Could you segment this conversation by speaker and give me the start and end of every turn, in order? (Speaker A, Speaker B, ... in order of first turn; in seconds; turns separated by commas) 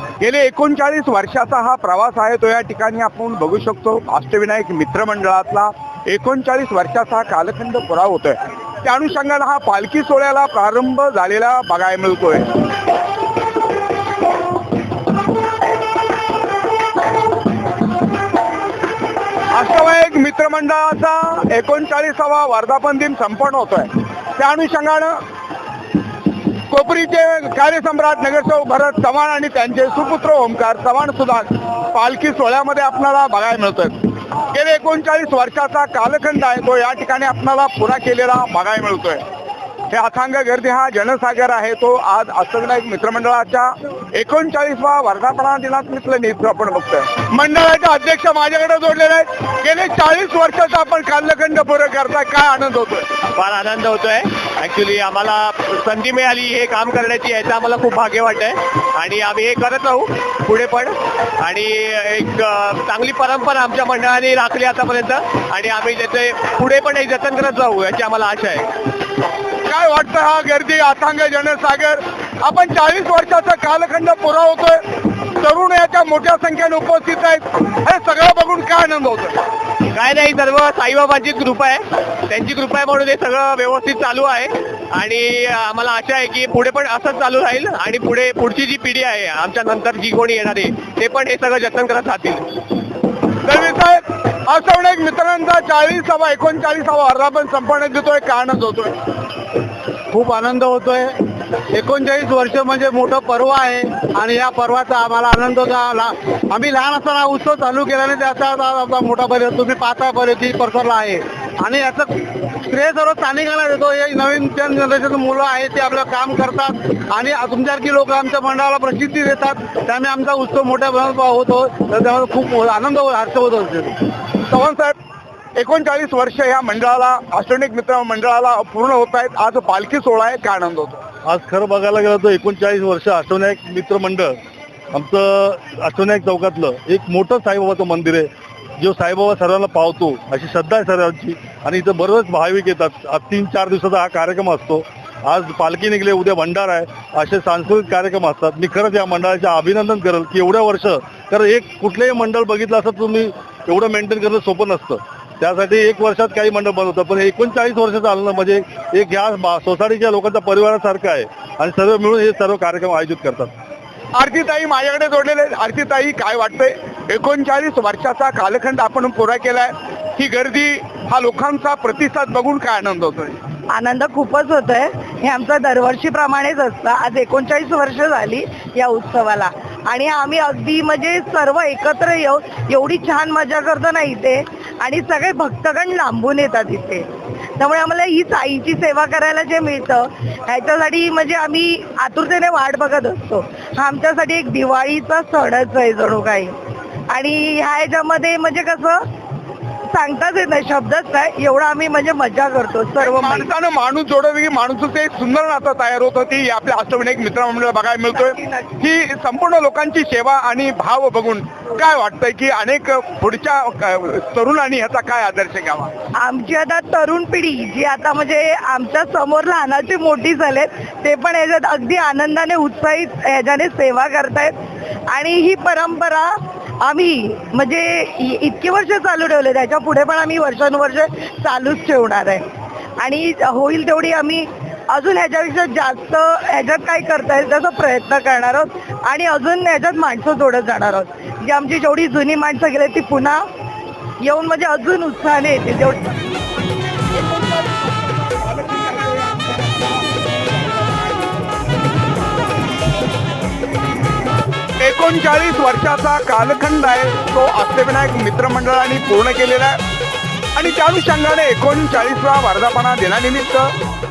Speaker A: 0.2-12.6, Speaker A: 19.5-25.2, Speaker A: 26.7-39.2, Speaker A: 39.9-53.1, Speaker B: 53.3-68.7, Speaker A: 69.7-79.4, Speaker B: 79.9-92.4, Speaker A: 93.4-98.9, Speaker C: 100.1-101.2, Speaker C: 101.7-124.0, Speaker A: 124.5-124.9, Speaker A: 125.6-131.0, Speaker D: 131.2-134.3, Speaker D: 134.9-163.5, Speaker A: 164.2-173.4, Speaker E: 173.7-187.1, Speaker E: 187.6-196.6, Speaker E: 197.1-199.0, Speaker E: 199.9-203.5, Speaker A: 203.0-215.9, Speaker E: 208.1-208.8, Speaker E: 216.2-224.6, Speaker E: 225.1-232.4, Speaker E: 233.0-243.5, Speaker E: 244.2-246.2, Speaker A: 248.6-249.1, Speaker A: 254.8-259.8, Speaker A: 260.6-263.7